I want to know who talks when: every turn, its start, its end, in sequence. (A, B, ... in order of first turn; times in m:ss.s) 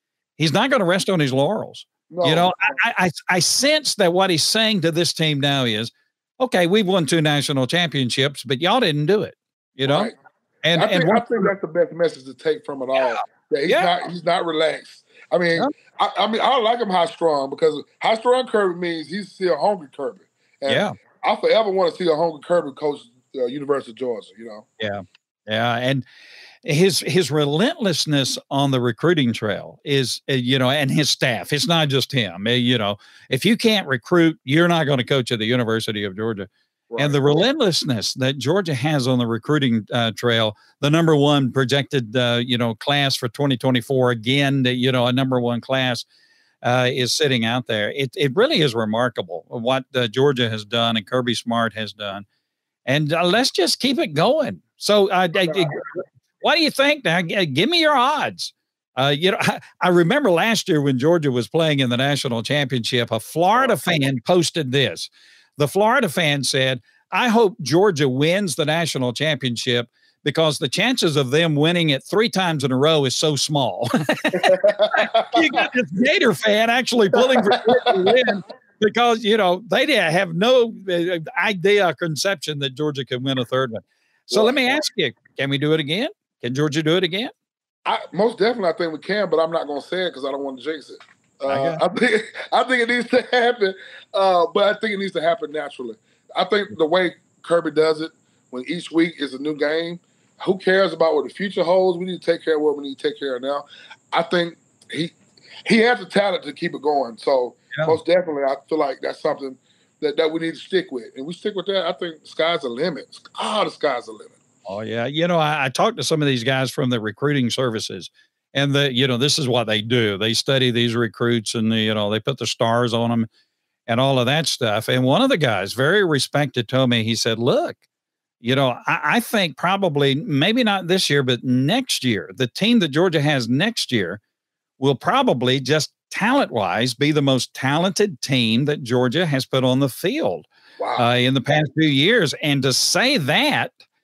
0:00.4-0:11.5 A
0:02.1-0:02.7 B
0:09.8-0:10.1 B
0:10.8-0:24.6 B
0:13.0-0:13.9 A
0:20.7-0:20.9 A
0:24.8-0:26.1 A
0:26.6-0:46.0 A
0:36.9-0:37.4 B
0:46.6-0:52.2 A
0:52.8-0:55.8 A
0:55.4-0:55.8 B
0:56.4-1:27.3 A
1:14.3-1:15.6 B
1:17.2-1:18.1 B
1:24.3-1:24.6 B
1:27.8-1:54.4 B
1:31.5-1:31.8 A
1:54.6-2:03.3 A
2:03.9-2:07.8 A
2:08.4-2:14.2 A
2:14.8-2:23.8 A
2:20.8-2:21.1 B